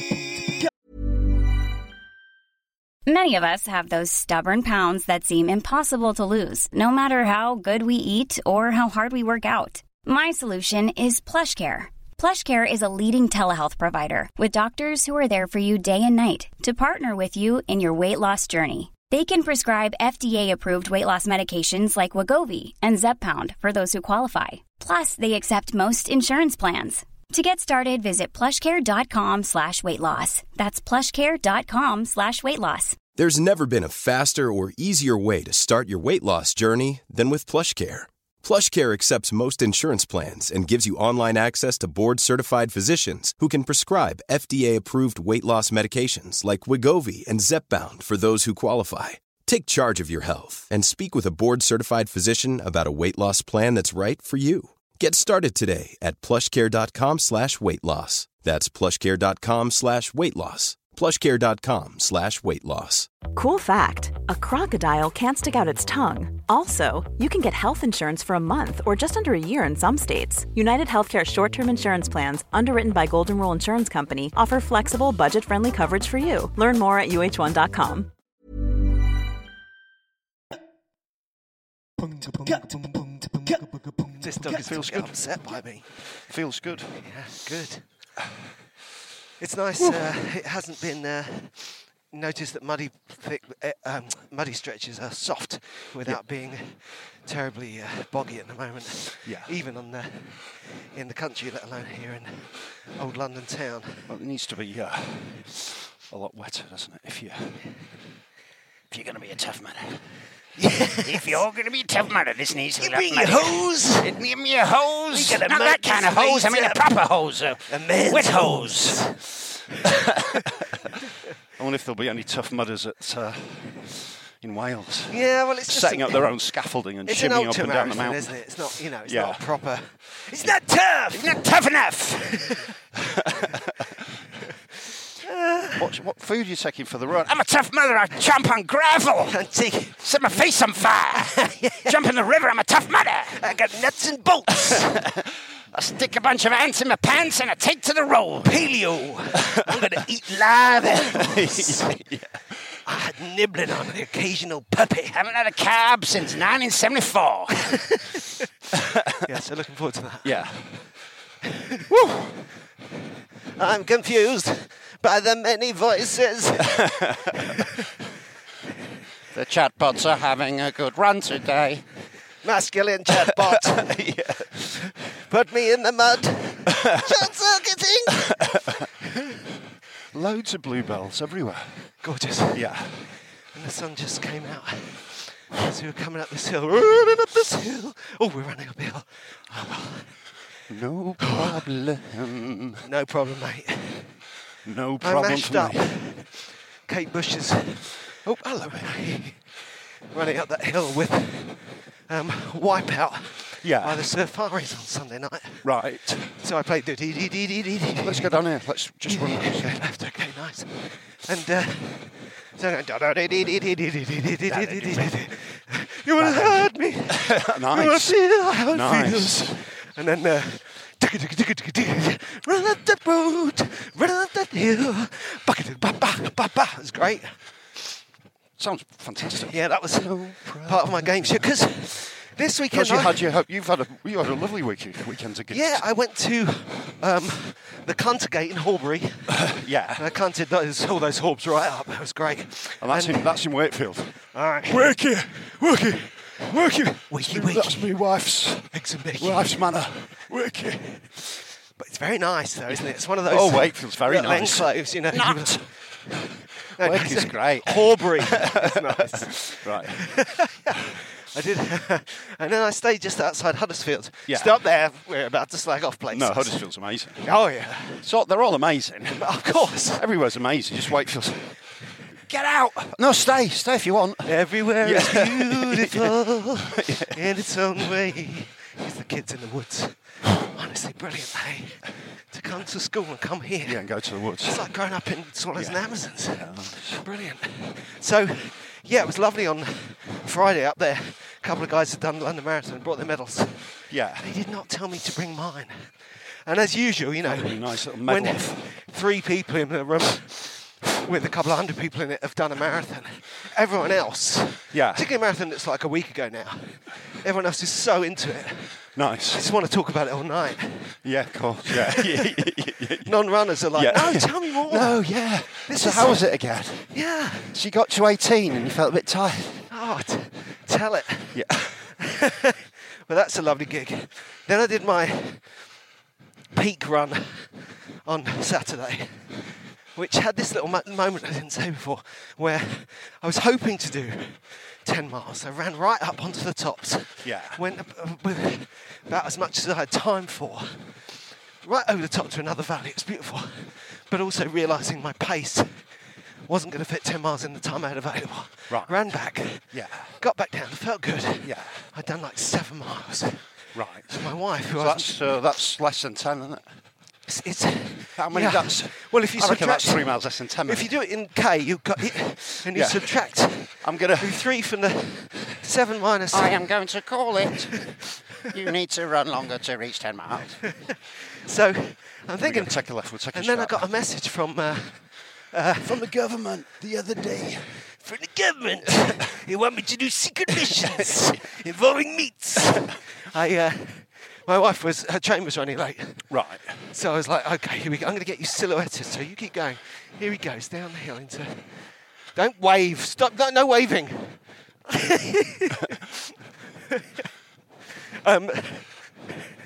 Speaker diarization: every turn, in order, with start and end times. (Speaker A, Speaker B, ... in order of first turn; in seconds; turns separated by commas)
Speaker A: 3.0-33.1, Speaker B: 33.1-63.1, Speaker C: 63.3-78.1, Speaker D: 84.2-86.1, Speaker E: 84.4-85.4, Speaker E: 86.3-87.0, Speaker D: 87.0-87.8, Speaker D: 89.4-104.1, Speaker E: 99.2-99.5, Speaker E: 104.1-107.6, Speaker F: 108.9-110.0, Speaker D: 110.6-111.4, Speaker F: 110.9-119.0, Speaker D: 112.8-114.1, Speaker D: 115.1-117.0, Speaker D: 117.7-120.5, Speaker E: 121.6-128.5, Speaker D: 125.1-126.3, Speaker D: 127.0-131.4, Speaker E: 129.0-129.4, Speaker F: 131.1-132.5, Speaker E: 132.9-133.9, Speaker D: 135.2-135.9, Speaker E: 135.8-137.3, Speaker F: 137.2-139.4, Speaker D: 139.3-140.4, Speaker F: 140.0-143.4, Speaker D: 141.1-141.9, Speaker D: 143.4-144.9, Speaker F: 145.7-148.6, Speaker D: 148.4-151.8, Speaker E: 151.2-152.4, Speaker D: 152.8-155.2, Speaker F: 155.1-157.7, Speaker D: 157.7-158.2, Speaker E: 158.7-159.2, Speaker D: 159.2-160.5, Speaker E: 160.2-160.8, Speaker D: 161.4-161.8, Speaker E: 161.9-162.3, Speaker D: 163.6-167.8, Speaker E: 166.6-167.6, Speaker F: 169.3-171.8, Speaker D: 172.4-173.9, Speaker E: 173.2-174.7, Speaker D: 174.6-178.4, Speaker E: 176.7-177.2, Speaker E: 178.2-178.9, Speaker E: 180.1-181.8, Speaker D: 182.0-190.1, Speaker E: 182.5-183.0, Speaker E: 190.7-192.8, Speaker D: 191.2-191.7, Speaker D: 192.8-194.2, Speaker E: 194.6-195.9, Speaker D: 195.0-199.5, Speaker D: 200.1-205.7, Speaker E: 203.6-204.0, Speaker E: 205.6-206.4, Speaker D: 206.3-208.4, Speaker E: 208.0-209.8, Speaker D: 209.1-227.3, Speaker E: 214.5-215.2, Speaker E: 216.2-219.6, Speaker E: 228.6-231.5, Speaker D: 229.4-233.2, Speaker E: 232.7-235.8, Speaker D: 235.5-239.4, Speaker E: 239.3-240.0, Speaker D: 239.9-243.3, Speaker E: 242.8-244.2, Speaker D: 244.3-244.9, Speaker E: 244.7-246.0, Speaker D: 245.9-247.9, Speaker E: 247.2-250.7, Speaker D: 248.7-249.6, Speaker D: 250.6-266.6, Speaker E: 252.7-255.6, Speaker E: 256.8-260.1, Speaker E: 264.3-264.6, Speaker E: 266.1-267.3, Speaker D: 267.2-268.1, Speaker E: 268.0-271.6, Speaker D: 269.1-270.0, Speaker E: 272.3-277.2, Speaker D: 274.2-283.8, Speaker E: 283.6-284.7, Speaker D: 284.4-295.9, Speaker E: 285.5-287.0, Speaker E: 293.9-294.3, Speaker D: 296.4-308.8, Speaker E: 297.2-298.7, Speaker E: 304.7-305.0, Speaker E: 308.9-309.5, Speaker D: 309.3-311.0, Speaker E: 311.0-317.0, Speaker D: 311.6-312.5, Speaker D: 313.0-316.3, Speaker D: 316.9-317.5, Speaker E: 317.5-319.7, Speaker D: 319.7-325.7, Speaker E: 321.3-321.9, Speaker D: 326.5-340.9, Speaker E: 337.2-337.6, Speaker D: 341.6-345.9, Speaker D: 346.5-353.5, Speaker E: 348.7-350.1, Speaker E: 351.4-351.9, Speaker E: 353.7-354.2, Speaker D: 354.1-355.2, Speaker E: 354.7-356.7, Speaker D: 357.3-366.6, Speaker E: 358.1-360.9, Speaker E: 362.7-364.4, Speaker F: 366.3-367.9, Speaker F: 368.5-370.6, Speaker D: 371.4-376.0, Speaker E: 372.4-373.9, Speaker E: 375.8-377.8, Speaker D: 378.0-386.3, Speaker E: 380.5-381.4, Speaker E: 386.3-386.8, Speaker D: 386.9-391.7, Speaker D: 392.3-396.1, Speaker D: 398.1-399.4